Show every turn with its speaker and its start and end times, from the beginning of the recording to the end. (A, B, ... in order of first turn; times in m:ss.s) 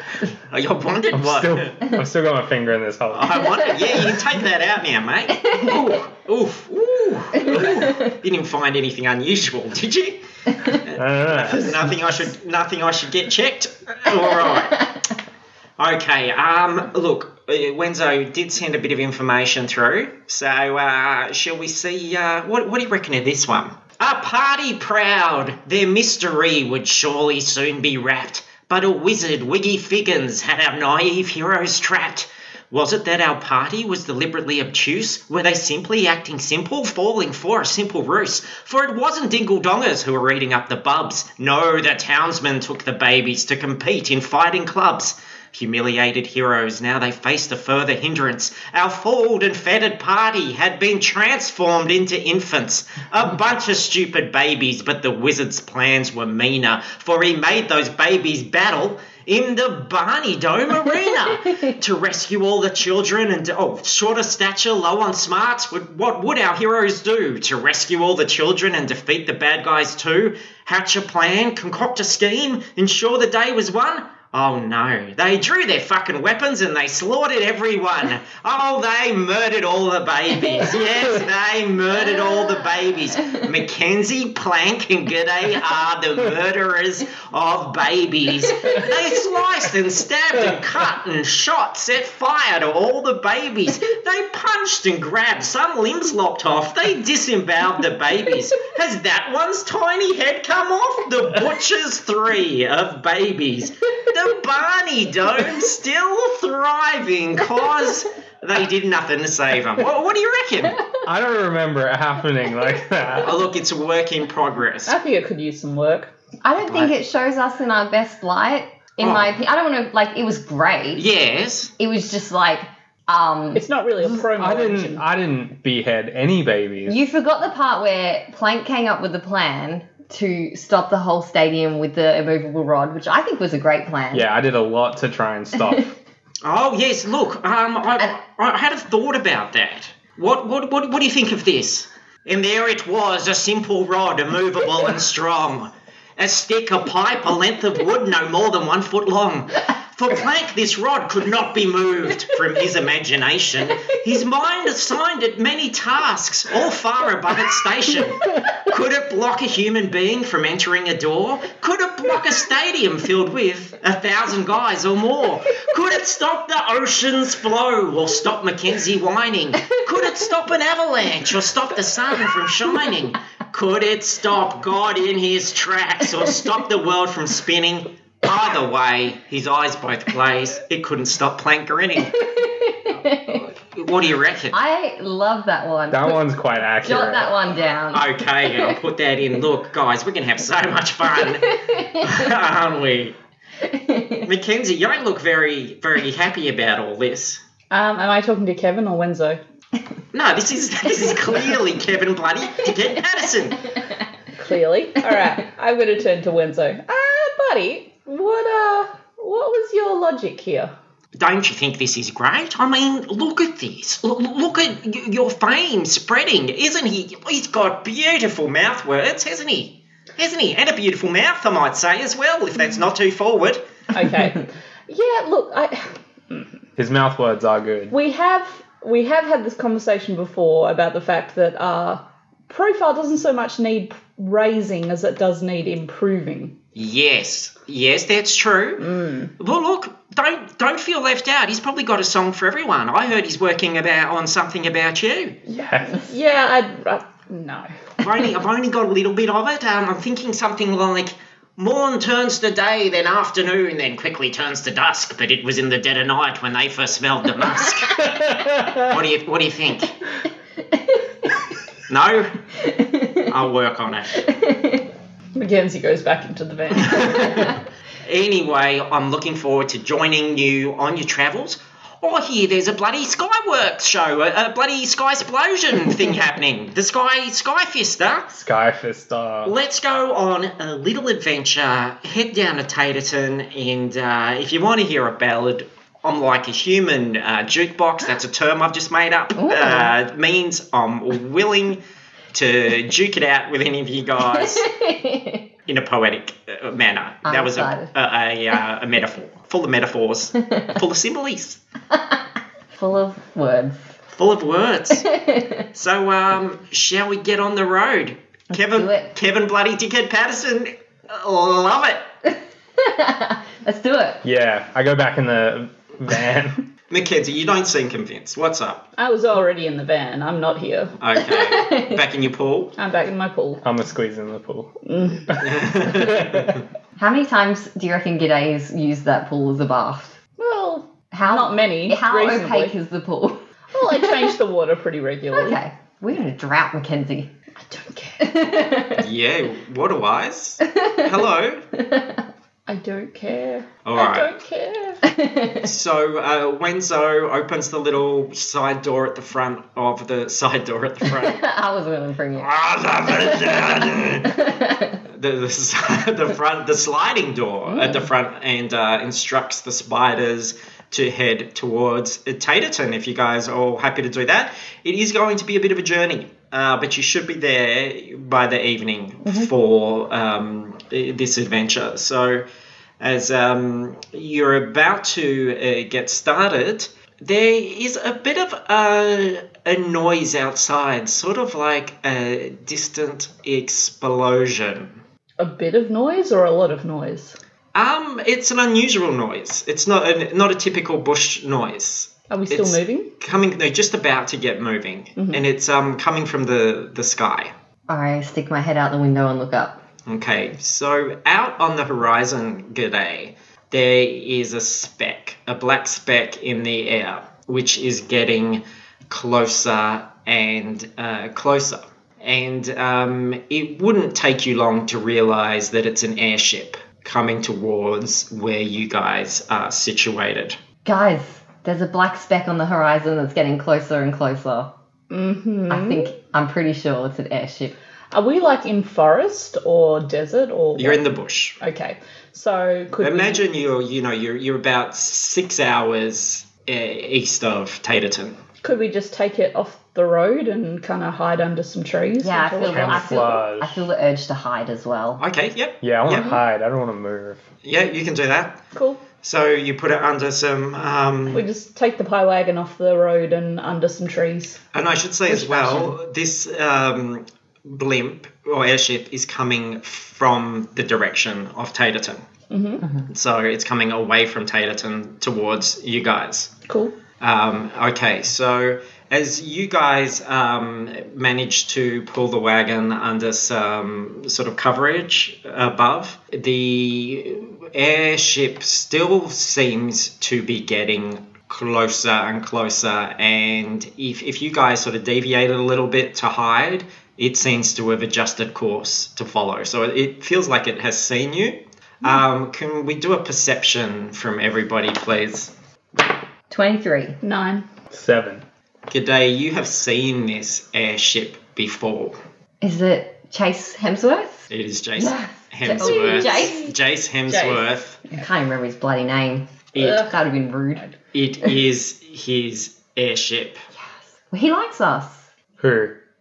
0:00.5-0:01.8 A
0:01.1-0:03.5 B
0:03.1-0:14.9 A
0:03.5-0:03.9 C
0:05.4-0:05.8 C
0:07.4-0:08.1 C
0:10.9-0:11.9 B
0:14.5-0:14.8 C
0:15.8-1:50.8 A
1:20.6-1:21.0 C
1:22.2-1:22.6 C
1:28.6-1:29.0 C
1:51.0-1:53.4 B
1:53.2-1:55.0 A
1:54.9-1:56.1 D
1:56.4-2:01.0 C
1:56.7-1:56.9 A
1:59.0-1:59.3 A
2:01.0-2:01.7 A
2:01.8-2:03.6 C
2:03.5-2:05.0 D
2:04.0-2:07.0 B
2:06.9-2:14.3 C
2:14.1-2:15.9 B
2:16.4-3:02.2 A
3:02.2-3:03.4 C
3:03.2-3:04.6 A
3:04.5-3:06.2 C
3:05.9-3:07.3 B
3:06.8-3:08.7 C
3:07.9-3:13.1 A
3:11.4-3:12.3 C
3:13.6-3:14.3 C
3:14.2-3:17.4 A
3:17.7-3:19.4 D
3:20.1-3:23.6 A
3:24.4-3:30.7 D
3:31.2-3:43.6 A
3:43.9-3:46.5 D
3:46.8-3:47.9 B
3:47.9-3:56.6 D
3:56.7-4:05.4 A
3:58.8-3:59.3 D
4:05.5-4:06.1 B
4:05.8-4:07.7 D
4:08.0-4:19.9 A
4:18.0-4:19.0 B
4:21.9-4:22.4 A
4:22.6-4:23.3 C
4:23.2-4:24.2 A
4:24.2-4:24.8 C
4:25.3-4:27.6 D
4:26.8-4:38.3 A
4:38.3-4:39.5 B
4:39.4-4:51.8 A
4:49.4-4:49.9 C
4:52.3-4:54.7 A
4:54.3-4:55.5 C
4:55.7-5:01.6 A
4:57.2-4:57.9 C
5:00.4-5:00.7 C
5:02.7-5:03.8 C
5:04.1-5:05.1 A
5:05.0-5:05.6 C
5:05.7-5:12.0 A
5:08.5-5:09.1 C
5:12.8-5:14.2 C
5:14.2-5:16.6 B
5:16.9-5:18.9 A
5:19.0-5:21.0 D
5:21.0-5:22.7 A
5:21.1-5:22.0 C
5:22.8-5:23.6 D
5:23.6-5:24.7 B
5:24.8-5:25.4 D
5:25.3-5:26.5 B
5:25.4-5:26.6 A
5:27.0-5:30.2 C
5:30.4-5:32.7 D
5:31.1-5:33.4 C
5:33.7-5:35.6 D
5:35.3-5:37.3 C
5:37.6-5:38.2 D
5:38.2-5:39.0 C
5:39.0-5:41.6 A
5:40.7-5:41.0 C
5:41.7-5:42.2 C
5:42.7-5:45.0 D
5:43.8-5:44.3 A
5:45.0-5:45.7 C
5:45.6-5:51.4 A
5:51.1-5:52.5 C
5:52.4-5:54.3 A
5:53.0-5:55.0 C
5:55.1-6:12.4 A
5:57.7-5:58.0 C
6:13.0-6:25.0 A
6:25.4-6:27.4 D
6:27.7-6:37.5 A
6:32.3-6:33.1 D
6:35.2-6:35.4 D
6:37.9-6:39.8 C
6:40.1-7:00.6 A
7:00.8-7:04.7 C
7:05.1-7:06.1 D
7:05.7-7:07.7 C
7:08.1-7:11.0 D
7:10.8-7:11.6 A
7:11.6-7:13.4 D
7:13.0-7:18.4 A
7:18.6-7:23.2 D
7:22.2-7:25.2 C
7:22.6-7:23.8 B
7:25.2-7:26.3 A
7:25.8-7:27.4 B
7:27.6-7:28.6 A
7:28.7-7:29.0 D
7:29.2-7:31.4 A
7:31.3-7:34.6 D
7:34.7-7:42.2 A
7:35.3-7:35.9 D
7:42.5-7:42.8 D
7:43.1-7:46.5 A
7:46.7-7:46.9 D
7:47.2-8:15.5 A
8:16.5-8:17.2 C
8:17.2-8:17.6 D
8:17.9-8:18.4 B
8:18.9-8:22.2 A
8:22.6-8:26.6 C
8:24.5-8:28.0 A
8:25.8-8:26.7 D
8:27.3-8:28.3 D
8:28.1-8:30.8 C
8:29.7-8:30.1 A
8:29.8-8:30.1 D
8:31.1-8:33.6 A
8:33.8-8:35.2 C
8:35.6-8:36.0 B